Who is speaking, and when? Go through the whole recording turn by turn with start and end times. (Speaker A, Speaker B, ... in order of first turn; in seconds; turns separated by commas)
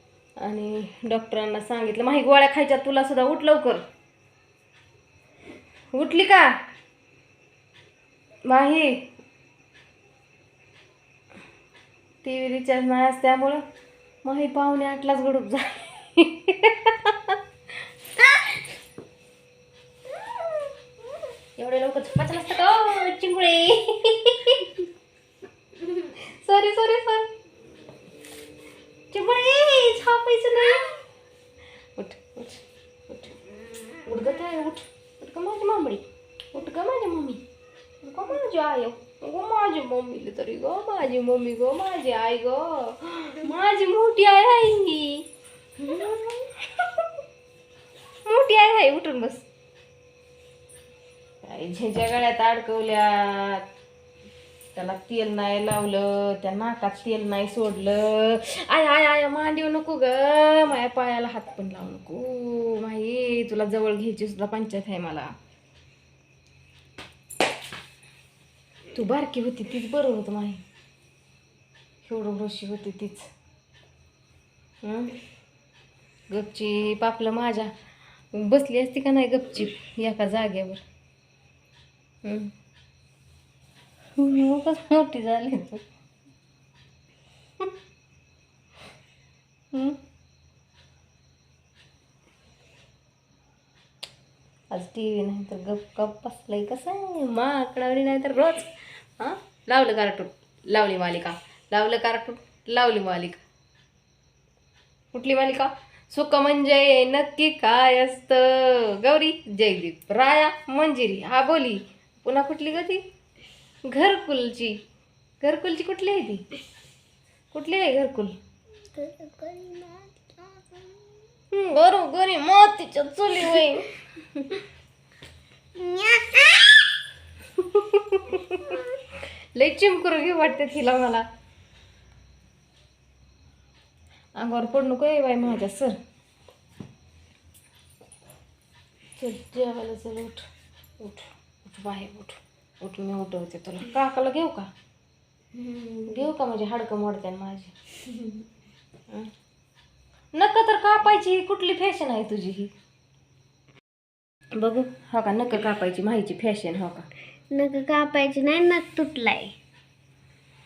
Speaker A: 0.4-3.9, Speaker A: 5.9-6.5, Speaker A: 8.5-9.1, Speaker A: 12.2-13.6, Speaker A: 14.2-17.4, Speaker A: 21.6-24.7, Speaker A: 26.2-27.3, Speaker A: 29.1-30.9, Speaker A: 32.0-33.4, Speaker A: 34.0-37.4, Speaker A: 38.0-45.2, Speaker A: 45.8-47.1, Speaker A: 48.3-49.5, Speaker A: 51.4-53.7, Speaker A: 54.8-65.3, Speaker A: 68.9-70.6, Speaker A: 72.0-73.3, Speaker A: 74.8-75.1, Speaker A: 76.3-77.7, Speaker A: 78.3-80.8, Speaker A: 82.2-82.5, Speaker A: 84.2-85.8, Speaker A: 94.7-98.7, Speaker A: 99.2-103.4, Speaker A: 105.1-113.0, Speaker A: 113.9-114.8, Speaker A: 115.4-116.4, Speaker A: 117.5-118.3, Speaker B: 118.9-121.3, Speaker A: 121.5-123.9, Speaker B: 125.8-126.8, Speaker A: 127.9-128.8, Speaker A: 129.6-131.2, Speaker A: 134.4-135.9, Speaker A: 139.2-140.4, Speaker A: 141.0-144.7, Speaker B: 145.5-146.3, Speaker A: 146.1-147.7, Speaker B: 148.1-148.4, Speaker A: 150.3-152.7, Speaker A: 154.6-157.1, Speaker B: 157.5-159.5